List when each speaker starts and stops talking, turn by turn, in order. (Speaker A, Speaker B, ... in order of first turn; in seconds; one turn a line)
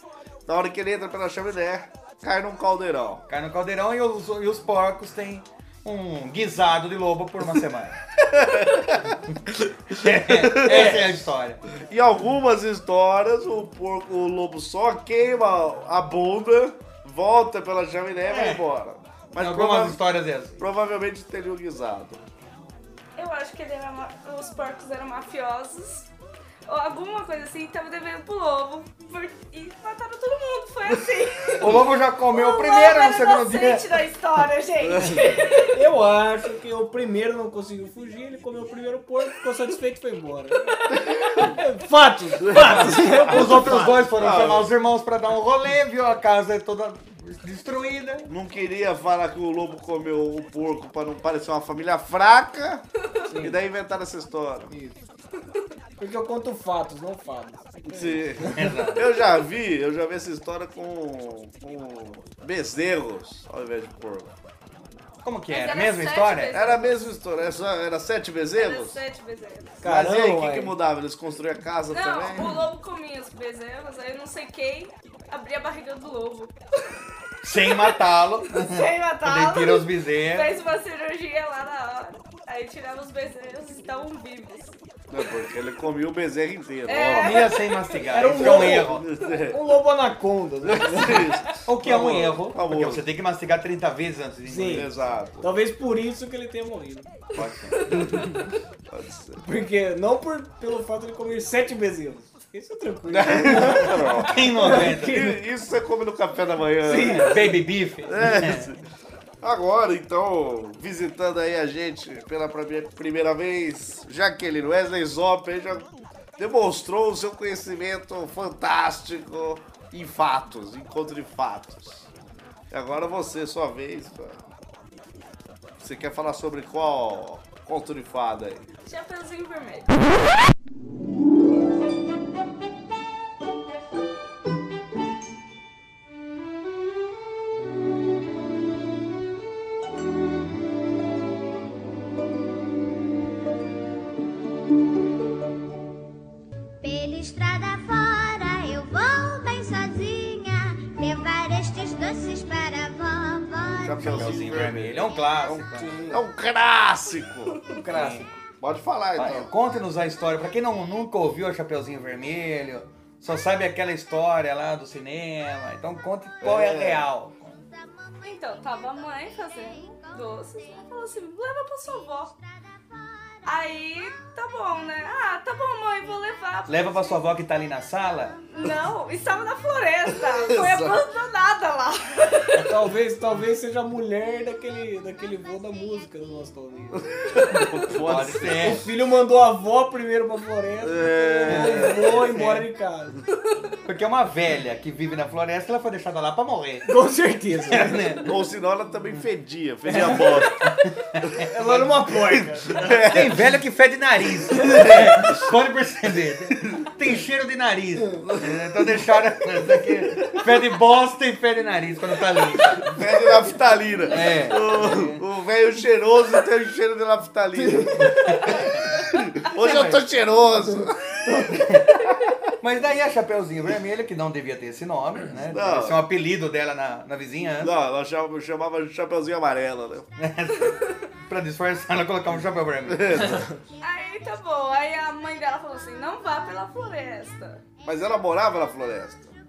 Speaker A: 0.5-3.2
Speaker B: 3.3-8.0
Speaker A: 8.2-11.2
Speaker B: 9.9-11.6
Speaker A: 11.7-20.0
Speaker B: 18.3-18.6
Speaker B: 19.4-20.6
Speaker A: 20.6-22.2
Speaker C: 23.2-26.1
Speaker C: 26.7-35.8
Speaker B: 31.6-33.9
Speaker A: 34.8-35.3
Speaker D: 35.7-44.0
Speaker A: 41.0-41.2
Speaker A: 42.4-44.7
Speaker B: 42.6-48.3
Speaker A: 48.3-52.8
Speaker D: 53.2-53.6
Speaker A: 53.4-54.7
Speaker D: 54.7-55.0
Speaker D: 56.0-58.7
Speaker A: 57.9-64.3
Speaker B: 58.5-59.1
Speaker B: 65.2-66.6
Speaker C: 65.5-67.0
Speaker A: 66.5-69.0
Speaker C: 68.5-69.8
Speaker D: 69.8-70.8
Speaker A: 69.8-72.6
Speaker C: 71.9-76.5
Speaker B: 77.4-80.6
Speaker C: 77.7-78.0
Speaker C: 78.5-84.8
Speaker A: 85.1-87.5
Speaker C: 86.9-88.1
Speaker B: 87.1-89.1
Speaker D: 88.1-89.0
Speaker A: 88.3-89.6
Speaker D: 89.5-91.3
Speaker A: 90.7-93.0
Speaker B: 91.7-94.9
Speaker D: 94.5-94.9
Speaker A: 94.6-95.5
Speaker D: 95.4-97.1
Speaker B: 97.3-98.0
Speaker A: 97.9-98.2
Speaker A: 98.9-99.4
Speaker D: 99.4-105.3
Speaker A: 103.1-107.5
Speaker B: 104.2-105.3
Speaker D: 106.8-107.5
Speaker B: 107.0-108.7
Speaker A: 108.0-108.8
Speaker A: 109.4-122.1
Speaker A: 122.7-124.4
Speaker A: 125.8-128.7
Speaker C: 128.9-130.0
Speaker E: 146.8-154.2
Speaker A: 153.8-157.6
Speaker B: 154.0-155.9
Speaker D: 155.8-156.2
Speaker D: 157.7-158.3
Speaker B: 157.9-158.3
Speaker A: 158.6-159.5
Speaker B: 159.2-167.6
Speaker A: 166.4-167.1
Speaker C: 168.2-172.3
Speaker C: 173.5-177.1
Speaker B: 176.7-178.4
Speaker C: 178.5-182.7
Speaker A: 180.2-181.0
Speaker D: 182.6-187.6
Speaker A: 187.0-188.8
Speaker B: 188.0-188.8
Speaker D: 188.6-193.2
Speaker A: 190.8-192.2
Speaker B: 191.5-192.7
Speaker B: 193.9-196.9
Speaker D: 196.9-198.2
Speaker B: 197.7-198.3
Speaker A: 198.2-200.7
Speaker D: 199.9-200.4
Speaker B: 200.6-202.2
Speaker D: 201.5-203.1
Speaker A: 202.7-203.5
Speaker B: 203.1-213.1
Speaker A: 204.5-205.5
Speaker A: 208.2-209.2
Speaker A: 212.8-221.8
Speaker B: 214.1-215.2
Speaker D: 217.6-218.3
Speaker B: 218.1-220.0
Speaker D: 221.2-221.7
Speaker B: 221.6-222.1
Speaker B: 222.6-227.7
Speaker A: 225.5-226.0
Speaker A: 227.6-230.1
Speaker B: 230.2-233.4
Speaker C: 230.6-230.9
Speaker A: 232.9-233.5
Speaker C: 233.8-237.6
Speaker A: 237.8-239.3